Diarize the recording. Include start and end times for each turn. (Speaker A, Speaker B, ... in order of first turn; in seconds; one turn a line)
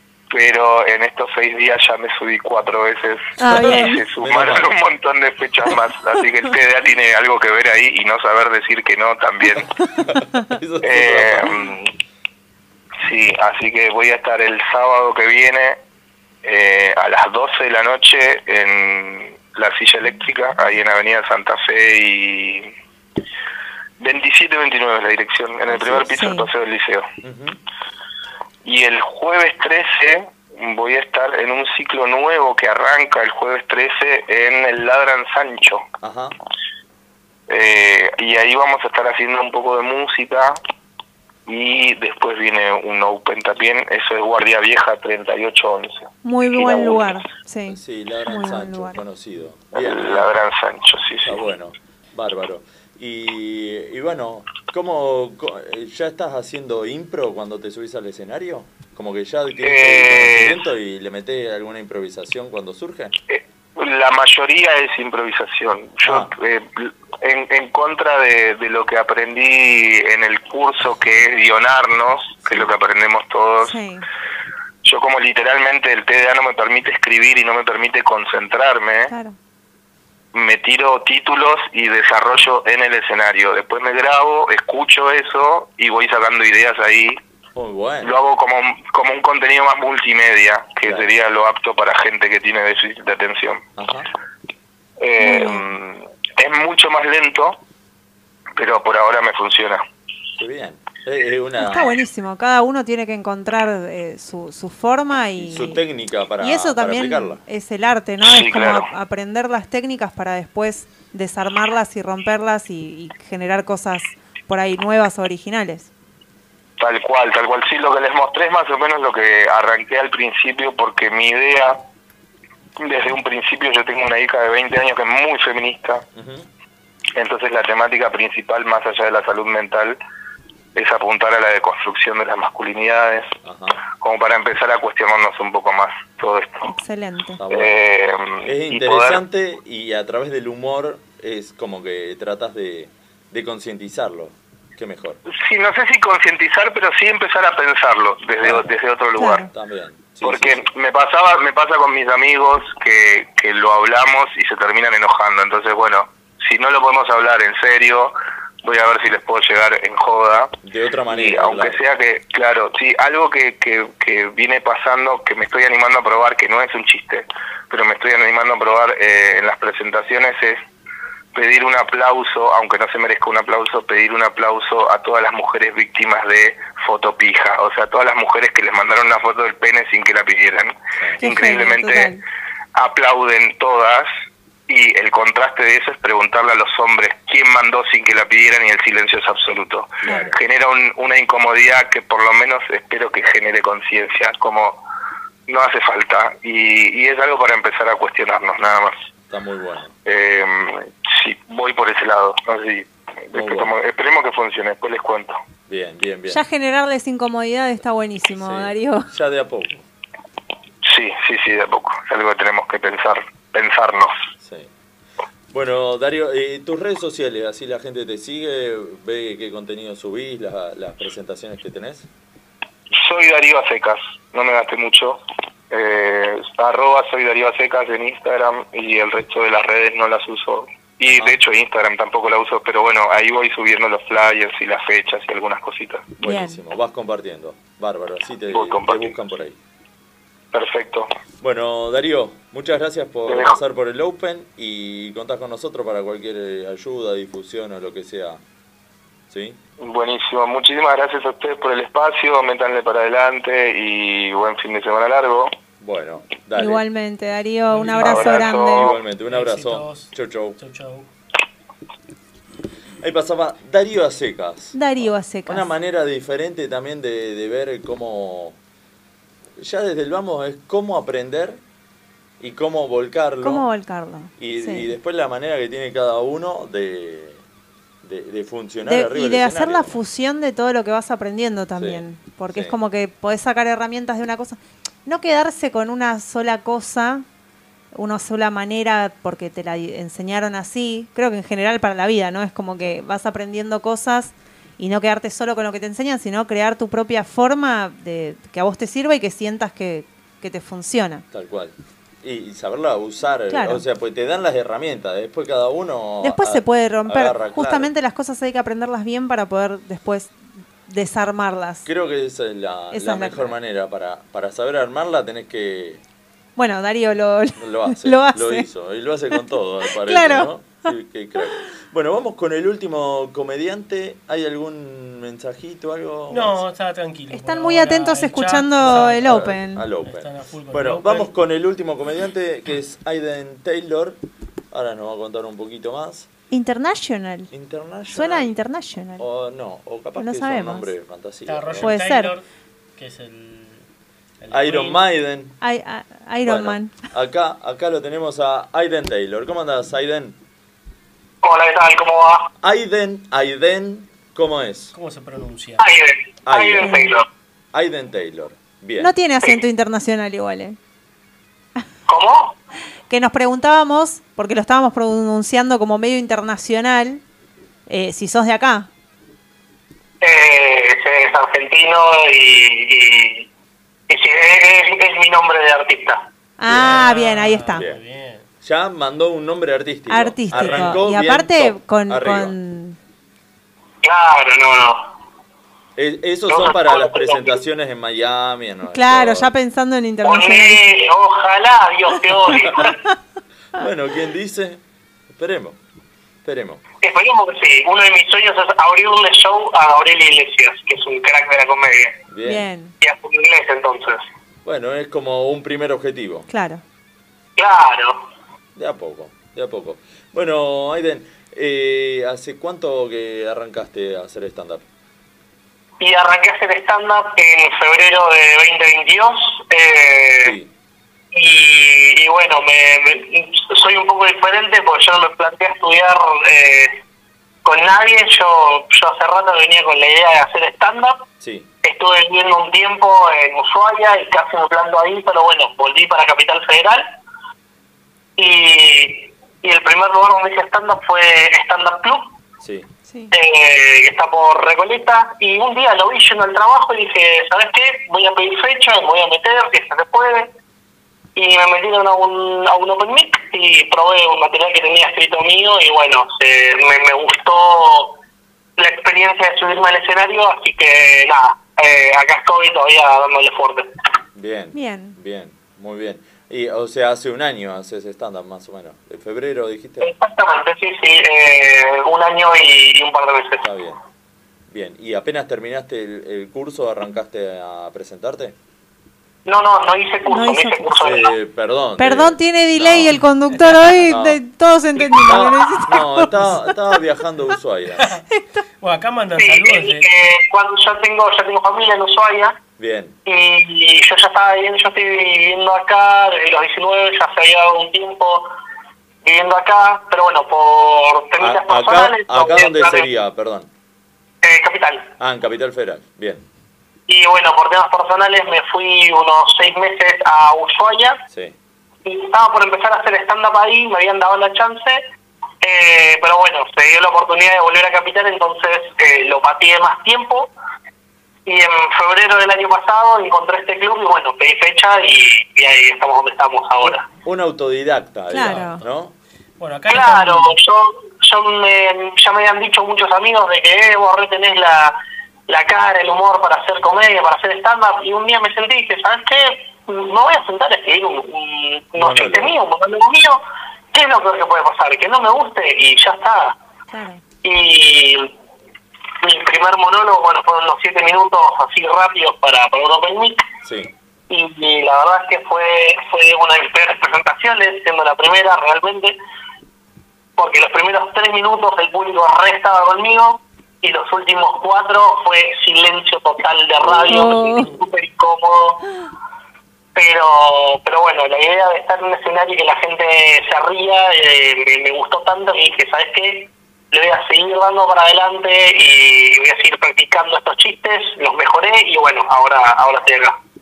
Speaker A: 0.3-9.7
Speaker B: 3.4-4.0
Speaker C: 3.6-4.7
Speaker C: 10.0-11.7
Speaker A: 10.8-11.9
Speaker A: 13.0-15.8
Speaker A: 16.4-22.7
Speaker A: 24.0-27.1
Speaker C: 25.7-26.1
Speaker B: 26.1-26.5
Speaker C: 27.2-27.6
Speaker A: 28.6-35.8
Speaker C: 36.0-36.4
Speaker A: 37.5-40.6
Speaker A: 41.5-47.2
Speaker B: 46.2-49.0
Speaker C: 47.7-50.3
Speaker A: 49.7-51.4
Speaker C: 51.2-63.1
Speaker A: 59.6-60.6
Speaker A: 63.3-73.8
Speaker C: 66.0-66.3
Speaker C: 72.4-72.7
Speaker B: 73.6-74.0
Speaker A: 74.8-79.1
Speaker B: 79.1-79.3
Speaker A: 80.3-87.2
Speaker C: 87.5-88.1
Speaker A: 88.0-93.6
Speaker C: 93.8-94.1
Speaker A: 95.0-97.6
Speaker B: 95.2-95.7
Speaker A: 98.5-99.8
Speaker C: 100.4-102.0
Speaker B: 101.6-105.8
Speaker C: 105.4-107.4
Speaker B: 106.4-115.9
Speaker A: 108.2-108.9
Speaker A: 116.8-121.8
Speaker A: 122.8-126.0
Speaker C: 126.1-126.5
Speaker A: 127.1-130.0
Speaker A: 130.7-133.3
Speaker C: 133.4-133.8
Speaker A: 133.9-136.7
Speaker B: 136.7-137.4
Speaker C: 137.4-137.8
Speaker A: 137.5-139.2
Speaker C: 138.4-145.2
Speaker A: 145.3-149.5
Speaker C: 148.4-148.7
Speaker B: 149.2-149.5
Speaker C: 149.5-150.7
Speaker A: 150.2-160.5
Speaker C: 160.6-161.8
Speaker A: 161.1-170.6
Speaker A: 171.3-182.1
Speaker C: 181.0-181.2
Speaker B: 181.2-182.2
Speaker A: 182.7-184.1
Speaker A: 184.7-194.8
Speaker C: 190.0-190.3
Speaker A: 195.5-198.9
Speaker C: 199.3-199.9
Speaker A: 200.0-205.4
Speaker C: 203.3-203.7
Speaker C: 205.7-206.4
Speaker B: 206.3-209.1
Speaker C: 208.4-209.8
Speaker A: 210.8-214.1
Speaker C: 214.4-214.7
Speaker C: 215.5-222.1
Speaker A: 222.9-236.2
Speaker C: 236.2-239.6
Speaker B: 236.2-236.6
Speaker A: 238.5-239.2
Speaker A: 240.5-241.1
Speaker C: 241.4-248.4
Speaker A: 243.2-243.6
Speaker C: 249.3-249.6
Speaker A: 249.8-255.5
Speaker C: 255.8-256.8
Speaker B: 256.6-258.9
Speaker D: 257.7-258.5
Speaker A: 258.0-259.0
Speaker C: 258.1-260.6
Speaker D: 259.3-261.1
Speaker C: 263.0-268.6
Speaker B: 264.7-265.7
Speaker C: 269.6-271.6
Speaker C: 272.4-273.7
Speaker B: 273.4-274.9
Speaker C: 274.4-277.4
Speaker C: 278.0-280.0
Speaker B: 278.9-287.2
Speaker C: 281.8-282.8
Speaker B: 287.9-301.2
Speaker C: 301.3-307.9
Speaker B: 303.5-303.8
Speaker B: 306.2-310.3
Speaker B: 310.9-311.9
Speaker C: 311.8-316.0
Speaker B: 312.9-313.5
Speaker B: 316.6-318.7
Speaker C: 317.6-326.6
Speaker B: 320.0-320.9
Speaker D: 326.3-331.3
Speaker B: 327.3-329.8
Speaker C: 328.8-334.2
Speaker C: 334.7-336.3
Speaker B: 336.5-337.5
Speaker C: 337.5-338.5
Speaker B: 338.1-339.2
Speaker C: 339.2-342.0
Speaker B: 340.2-340.9
Speaker D: 341.4-342.4
Speaker B: 341.8-342.3
Speaker D: 343.0-343.8
Speaker D: 344.4-345.0
Speaker C: 344.5-345.6
Speaker B: 345.6-346.9
Speaker C: 346.4-350.4
Speaker E: 351.4-352.5
Speaker C: 352.6-354.9
Speaker D: 354.9-355.8
Speaker E: 355.8-357.3
Speaker C: 356.4-356.9
Speaker B: 356.8-357.1
Speaker C: 357.7-359.1
Speaker B: 359.0-360.8
Speaker E: 362.1-362.6
Speaker B: 363.1-367.2
Speaker B: 367.9-368.9
Speaker E: 370.2-373.5
Speaker E: 374.1-376.3
Speaker B: 376.6-377.8
Speaker C: 376.7-377.0
Speaker D: 376.7-378.4
Speaker C: 377.7-378.0
Speaker C: 378.6-382.6
Speaker B: 380.1-383.0
Speaker D: 380.5-380.9
Speaker E: 384.0-385.1
Speaker C: 385.9-389.5
Speaker E: 386.5-387.6
Speaker B: 388.9-390.9
Speaker E: 390.2-392.9
Speaker C: 393.8-394.8
Speaker C: 395.3-395.8
Speaker C: 396.4-396.8
Speaker E: 397.0-402.2
Speaker C: 402.3-402.6
Speaker B: 402.4-402.9
Speaker E: 403.0-404.2
Speaker C: 404.6-406.5
Speaker B: 406.5-406.8
Speaker E: 407.6-408.2
Speaker C: 408.8-414.8
Speaker E: 416.0-420.6
Speaker C: 420.4-420.7
Speaker E: 421.3-426.9
Speaker E: 427.6-431.2
Speaker C: 431.4-431.7
Speaker E: 431.8-437.1
Speaker E: 438.4-442.3
Speaker C: 442.6-442.9
Speaker B: 443.1-443.3
Speaker E: 443.3-450.5
Speaker E: 451.3-458.1
Speaker E: 458.8-463.9
Speaker C: 464.3-470.1
Speaker B: 464.7-465.1
Speaker E: 470.0-473.7
Speaker C: 473.6-474.0
Speaker C: 474.7-478.5
Speaker E: 479.4-481.3
Speaker B: 480.3-480.9
Speaker C: 481.0-483.2
Speaker B: 482.0-486.6
Speaker C: 484.1-484.4
Speaker C: 484.9-488.2
Speaker D: 488.8-490.1
Speaker E: 489.4-492.6
Speaker C: 492.8-493.1
Speaker E: 493.2-498.5
Speaker E: 499.2-503.1
Speaker C: 501.4-503.7
Speaker E: 504.4-505.1
Speaker C: 505.2-506.4
Speaker E: 507.1-511.2
Speaker E: 512.0-515.0
Speaker E: 515.6-520.5
Speaker E: 521.5-527.1
Speaker C: 526.8-529.1
Speaker B: 528.3-528.8
Speaker D: 528.4-528.8
Speaker D: 529.6-530.5
Speaker E: 529.9-535.0
Speaker E: 535.5-543.4
Speaker C: 542.0-542.5
Speaker E: 543.9-546.6
Speaker B: 546.9-547.2
Speaker E: 547.4-548.3
Speaker E: 549.2-553.4
Speaker C: 553.6-553.9
Speaker E: 554.3-559.1
Speaker E: 560.4-568.8
Speaker B: 567.1-567.7
Speaker E: 569.9-583.4